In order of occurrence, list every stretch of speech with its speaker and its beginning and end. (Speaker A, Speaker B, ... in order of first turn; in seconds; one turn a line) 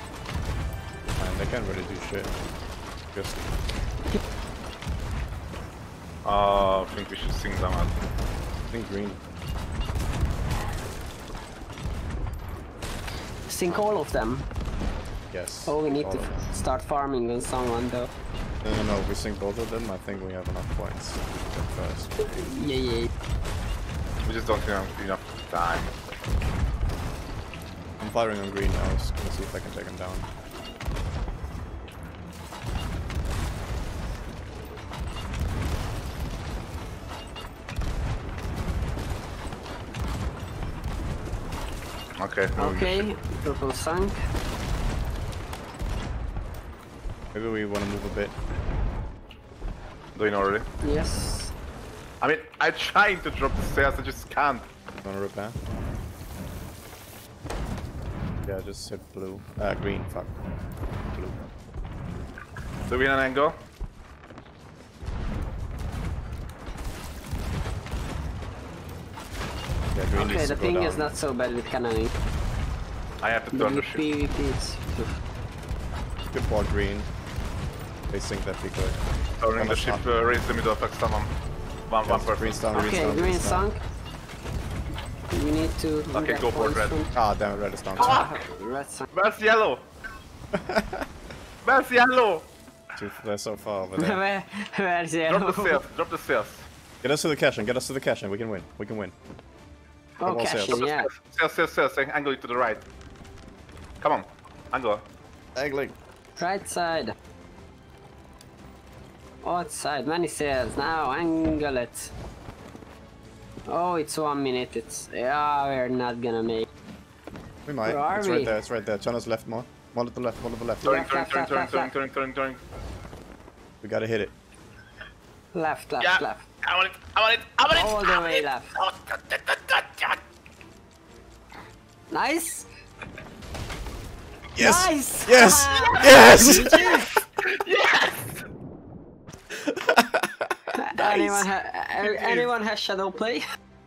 Speaker A: 1.2-2.3
Speaker A: 3.1-3.5
Speaker B: 6.2-8.0
Speaker A: 8.7-9.2
Speaker C: 13.5-14.5
Speaker A: 15.3-16.5
Speaker C: 15.7-18.1
Speaker A: 18.6-22.1
Speaker C: 22.2-23.1
Speaker B: 24.2-25.9
Speaker A: 28.0-30.3
Speaker B: 42.2-43.1
Speaker C: 42.6-44.2
Speaker A: 47.3-48.4
Speaker B: 50.1-50.7
Speaker C: 50.8-51.5
Speaker B: 52.2-54.7
Speaker A: 55.0-55.6
Speaker A: 58.5-60.4
Speaker A: 61.0-61.5
Speaker B: 62.9-63.6
Speaker A: 69.9-71.1
Speaker C: 70.2-72.1
Speaker B: 73.2-74.0
Speaker C: 73.5-75.2
Speaker A: 76.3-77.1
Speaker A: 78.1-79.0
Speaker B: 79.4-81.3
Speaker A: 79.6-80.1
Speaker B: 81.9-82.9
Speaker A: 82.0-83.7
Speaker C: 82.8-83.8
Speaker C: 85.3-87.1
Speaker B: 86.1-87.0
Speaker A: 87.1-88.2
Speaker B: 88.0-88.5
Speaker C: 88.0-89.1
Speaker B: 89.1-89.9
Speaker A: 90.5-91.1
Speaker B: 91.6-92.5
Speaker A: 93.0-94.2
Speaker C: 94.0-95.8
Speaker B: 95.3-96.7
Speaker A: 97.0-99.2
Speaker C: 100.2-101.1
Speaker A: 100.2-100.8
Speaker B: 100.7-102.8
Speaker B: 104.0-105.0
Speaker A: 105.5-106.0
Speaker C: 106.4-107.1
Speaker C: 109.4-112.1
Speaker C: 113.7-116.7
Speaker A: 117.7-121.0
Speaker C: 117.8-118.6
Speaker B: 120.8-122.6
Speaker C: 120.8-121.9
Speaker A: 123.8-124.4
Speaker C: 125.5-126.4
Speaker B: 126.0-130.2
Speaker C: 127.7-128.7
Speaker C: 132.1-132.7
Speaker A: 134.6-137.0
Speaker C: 134.6-137.1
Speaker B: 136.0-136.3
Speaker B: 137.4-138.3
Speaker A: 139.7-141.4
Speaker C: 140.8-143.4
Speaker B: 142.0-142.4